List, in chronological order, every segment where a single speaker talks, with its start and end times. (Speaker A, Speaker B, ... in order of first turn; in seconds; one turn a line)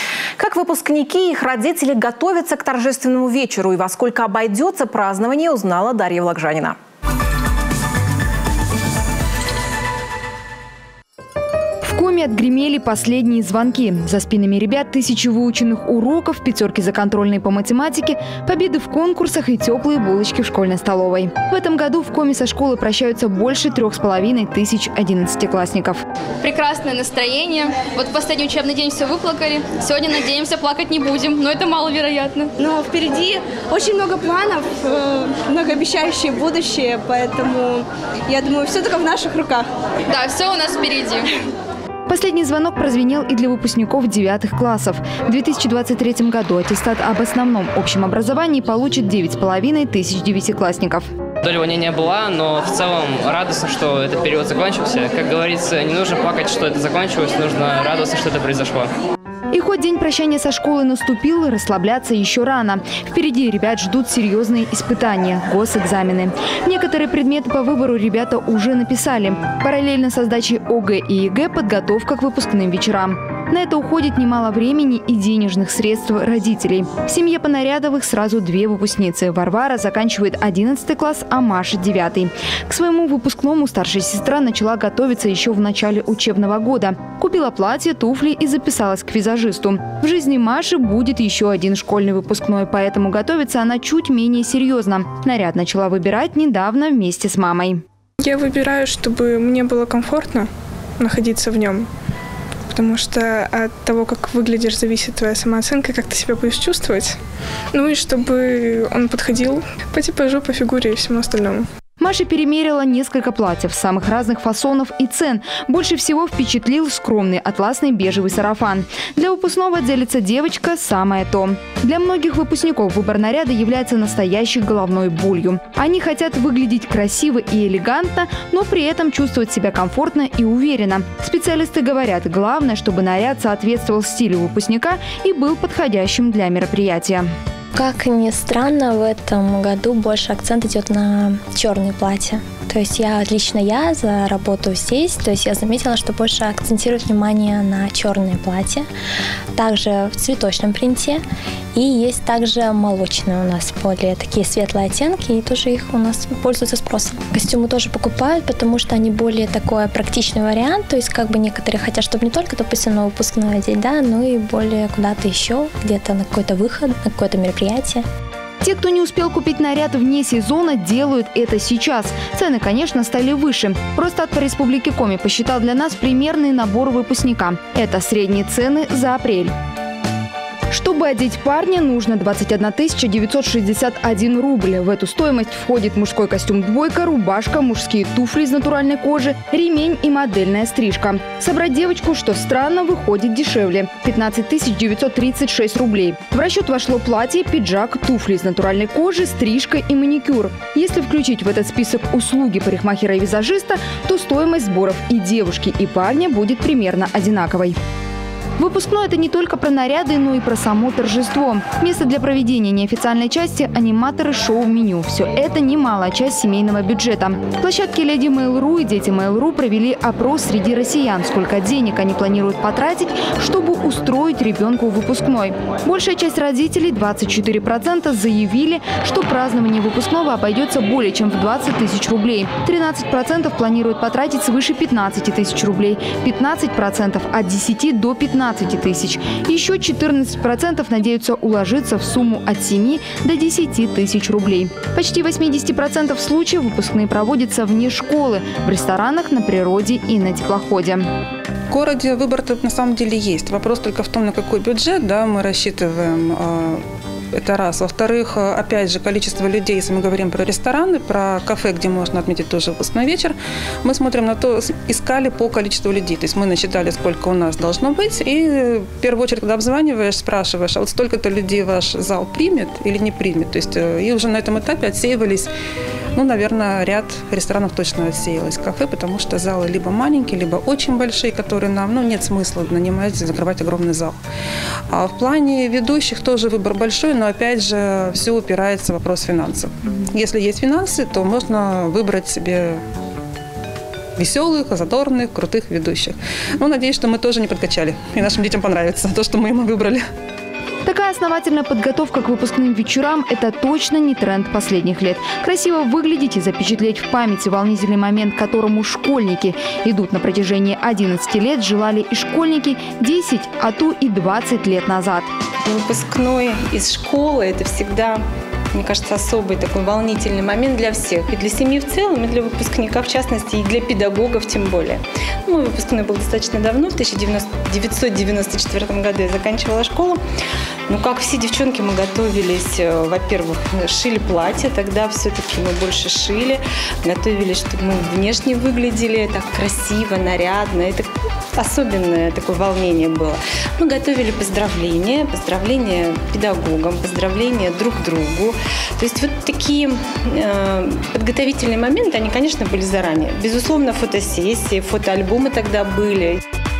Speaker A: 0.4-6.8
Speaker B: 11.8-26.0
Speaker C: 26.4-32.6
Speaker D: 32.6-39.6
Speaker C: 40.1-41.3
Speaker B: 42.1-51.0
Speaker E: 51.4-58.9
Speaker B: 59.5-97.8
Speaker F: 98.2-101.9
Speaker F: 102.7-107.2
Speaker F: 107.7-111.7
Speaker B: 112.0-137.3
Speaker G: 137.7-148.9
Speaker G: 149.5-151.2
Speaker G: 151.7-168.0
Speaker B: 168.6-179.5
Speaker B: 180.7-207.8
Speaker B: 208.6-251.1
Speaker H: 251.7-275.5
Speaker H: 276.1-284.1
Speaker H: 284.9-292.8
Speaker H: 294.2-300.0
Speaker B: 300.8-315.3
Speaker I: 315.6-330.2
Speaker I: 330.9-356.4